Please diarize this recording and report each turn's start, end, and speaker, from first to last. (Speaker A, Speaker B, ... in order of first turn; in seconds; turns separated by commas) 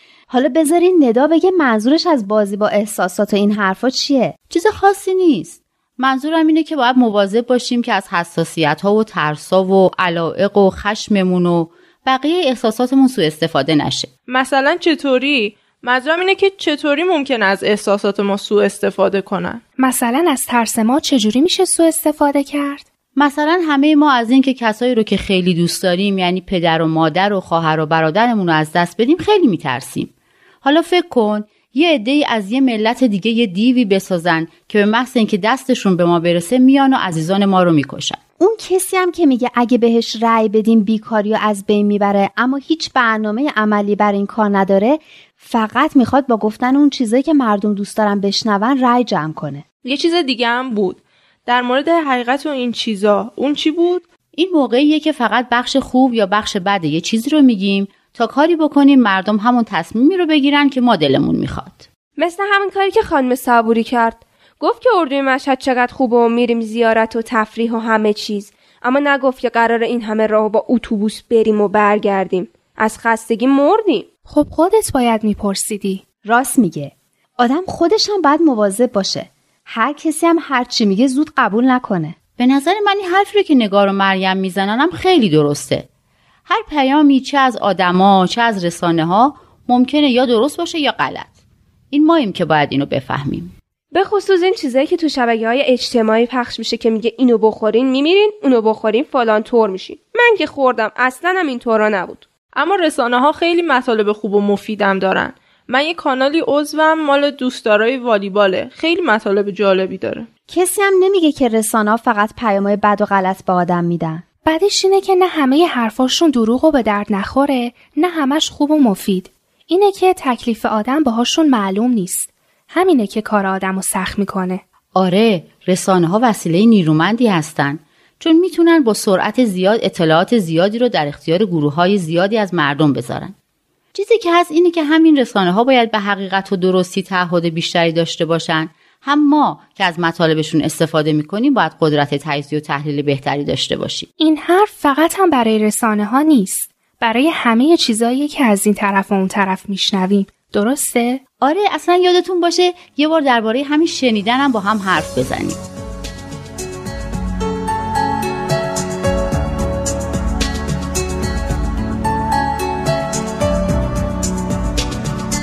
Speaker A: 0.3-4.3, Speaker B: 4.5-14.1, Speaker C: 14.3-19.6, Speaker D: 19.8-22.9, Speaker B: 23.1-38.2, Speaker A: 38.4-49.6, Speaker C: 49.8-54.0, Speaker B: 54.3-61.8, Speaker E: 62.2-74.1, Speaker D: 74.3-76.0, Speaker A: 76.2-82.2, Speaker B: 82.4-85.9, Speaker B: 86.5-91.3, Speaker B: 91.9-93.5, Speaker E: 93.9-102.2, Speaker C: 102.5-110.3, Speaker A: 110.5-114.2, Speaker D: 114.4-124.6, Speaker B: 124.9-133.3, Speaker B: 133.9-144.1, Speaker D: 144.2-151.2, Speaker B: 151.4-155.6